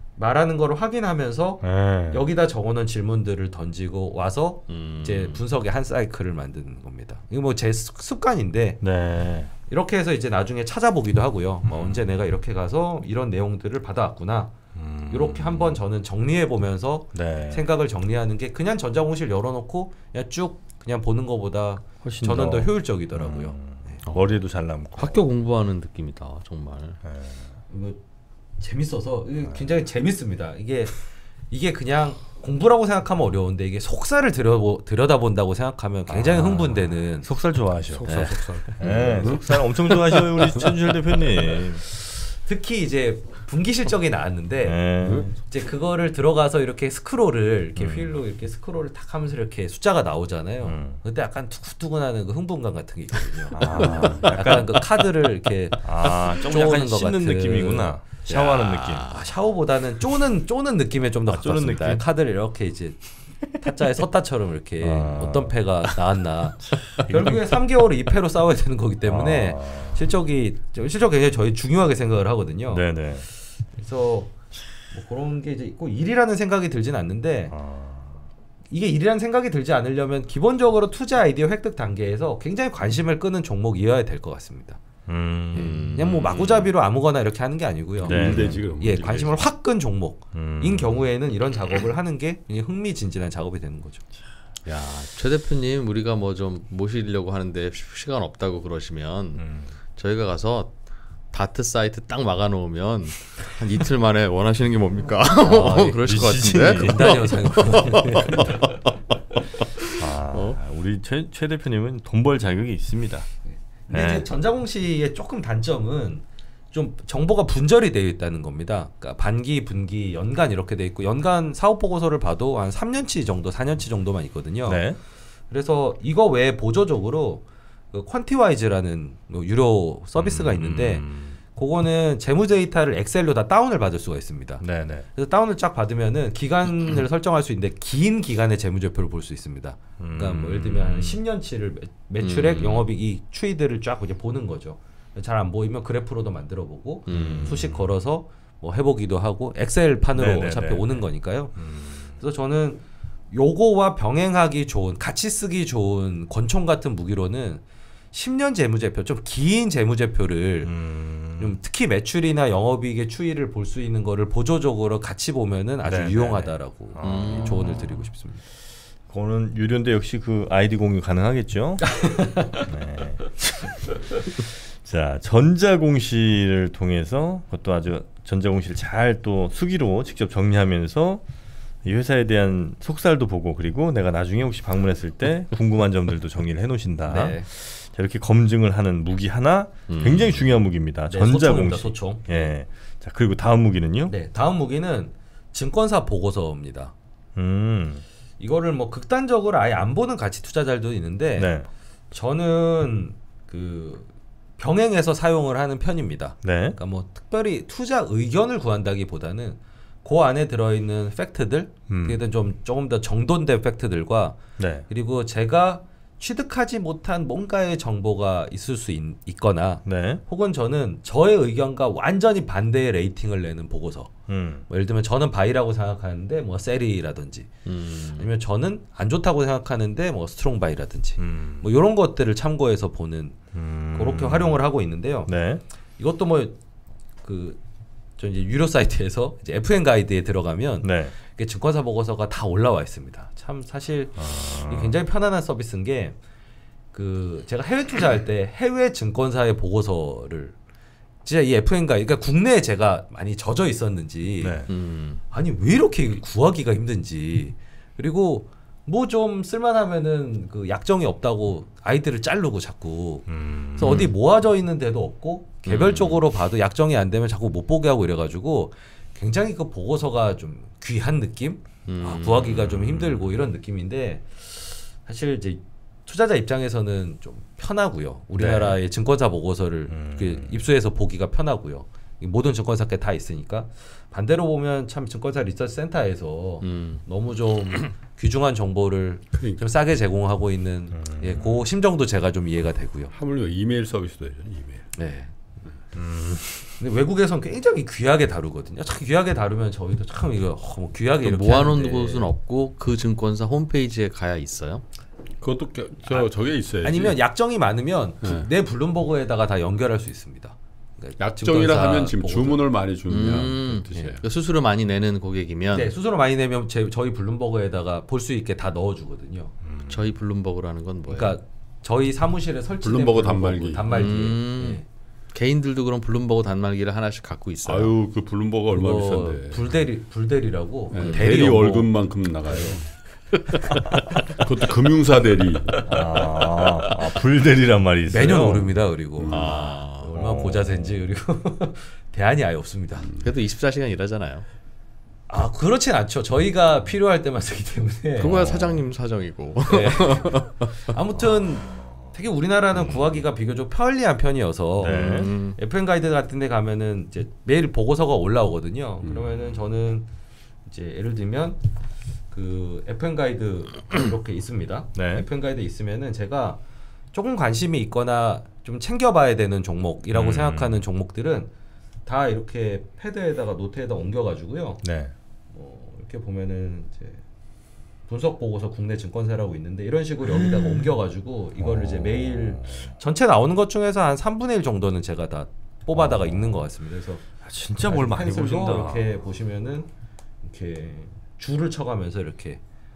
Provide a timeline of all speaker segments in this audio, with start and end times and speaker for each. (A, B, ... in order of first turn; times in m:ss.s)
0:00.2-0:08.8 A
0:01.6-0:02.2 B
0:04.7-0:05.4 C
0:08.8-0:09.5 B
0:09.7-0:14.6 A
0:11.6-0:12.0 B
0:14.8-0:15.8 B
0:15.1-0:24.0 A
0:17.1-0:17.7 B
0:22.0-0:25.2 B
0:24.0-0:24.4 C
0:25.0-0:27.0 C
0:27.0-0:27.5 B
0:27.7-0:28.0 A
0:28.6-0:37.3 A
0:36.1-0:41.8 B
0:37.9-0:40.0 D
0:38.0-0:39.2 A
0:42.4-1:17.5 A
0:44.6-0:45.3 B
0:45.0-0:45.3 D
0:47.8-0:48.1 B
0:50.6-0:51.0 B
0:53.5-0:54.9 B
0:55.8-0:59.1 B
0:58.3-0:59.1 C
1:01.3-1:02.0 B
1:04.8-1:05.6 B
1:06.6-1:07.6 B
1:09.0-1:10.0 B
1:12.7-1:13.3 B
1:17.5-1:18.2 B
1:18.7-1:24.8 A
1:25.1-1:25.8 B
1:25.5-1:34.0 A
1:25.6-1:26.6 C
1:28.0-1:29.4 D
1:28.0-1:28.7 B
1:30.3-1:31.1 B
1:34.6-1:40.8 C
1:39.4-1:39.7 B
1:41.3-1:48.8 C
1:45.4-1:48.8 A
1:46.0-1:47.3 B
1:50.0-1:53.3 B
1:50.3-1:50.6 C
1:53.5-2:04.8 A
1:53.9-1:54.3 B
2:04.7-2:05.0 B
2:05.5-2:31.6 A
2:10.2-2:11.4 B
2:14.6-2:15.1 B
2:20.0-2:21.2 B
2:22.2-2:22.8 C
2:27.1-2:27.6 C
2:27.1-2:27.9 B
2:30.2-2:32.1 B
2:32.2-2:40.7 A
2:40.6-2:41.6 B
2:41.4-2:48.4 A
2:45.8-2:48.0 B
2:47.0-2:47.8 C
2:49.1-3:01.2 B
2:52.0-2:52.6 A
3:01.8-3:14.1 B
3:07.1-3:07.5 A
3:09.9-3:10.4 C
3:11.1-3:12.3 A
3:14.1-3:16.9 A
3:17.4-3:18.0 B
3:18.4-3:21.5 A
3:21.4-3:21.7 B
3:22.1-3:44.1 A
3:26.4-3:26.8 B
3:31.9-3:32.2 B
3:34.6-3:34.8 B
3:39.8-3:40.2 B
3:44.3-3:44.6 B
3:44.7-3:53.4 A
3:47.7-3:48.3 C
3:51.2-3:51.7 B
3:53.5-3:54.6 B
3:53.9-3:55.3 A
3:55.3-3:55.6 B
3:56.0-3:56.6 A
3:57.2-3:57.6 A
3:58.2-4:06.2 A
4:00.8-4:01.1 B
4:04.2-4:05.0 B
4:06.9-4:10.6 A
4:11.2-4:14.7 A
4:14.4-4:14.7 B
4:14.7-4:15.2 C
4:15.3-4:53.1 A
4:23.3-4:24.1 B
4:25.7-4:26.2 C
4:31.9-4:32.7 C
4:32.5-4:33.3 B
4:38.4-4:38.8 C
4:39.9-4:40.6 B
4:46.6-4:47.0 C
4:49.4-4:49.6 D
4:50.9-4:51.7 B
4:53.1-4:54.9 D
4:55.0-4:55.3 A
4:56.0-4:56.8 B
4:56.8-5:02.3 A
5:01.2-5:04.8 C
5:05.4-5:07.2 D
5:06.8-5:12.6 A
5:08.2-5:08.5 D
5:11.2-5:14.2 D
5:13.1-5:15.9 C
5:15.7-5:19.5 A
5:19.6-5:20.0 B
5:19.9-5:21.4 C
5:21.1-5:24.8 A
5:22.8-5:23.8 D
5:23.9-5:24.8 C
5:25.3-5:27.9 C
5:27.7-5:29.7 D
5:28.7-5:31.9 A
5:30.9-5:32.9 D
5:30.9-5:31.3 C
5:32.5-5:32.8 A
5:34.3-5:36.0 D
5:35.9-5:38.8 B
5:38.1-5:43.1 A
5:39.2-5:39.7 D
5:39.3-5:40.1 C
5:40.1-5:41.0 B
5:43.0-5:43.3 D
5:43.2-5:44.4 C
5:45.3-5:48.6 A
5:48.2-5:50.8 C
5:48.3-5:48.7 B
5:49.7-6:00.1 A
5:51.6-5:52.1 B
5:54.8-5:55.3 B
5:54.8-5:55.6 C
5:59.0-5:59.6 D
6:00.7-6:01.6 A
6:02.3-6:06.6 A
6:05.0-6:05.2 B
6:07.1-6:11.5 A
6:10.1-6:10.8 B
6:12.1-6:14.8 A
6:14.8-6:15.1 B
6:15.5-6:17.2 A
6:18.1-6:27.2 A
6:20.3-6:20.9 B
6:21.6-6:22.9 B
6:26.0-6:26.6 B
6:27.4-6:29.1 B
6:27.8-6:29.9 A
6:30.4-6:32.6 A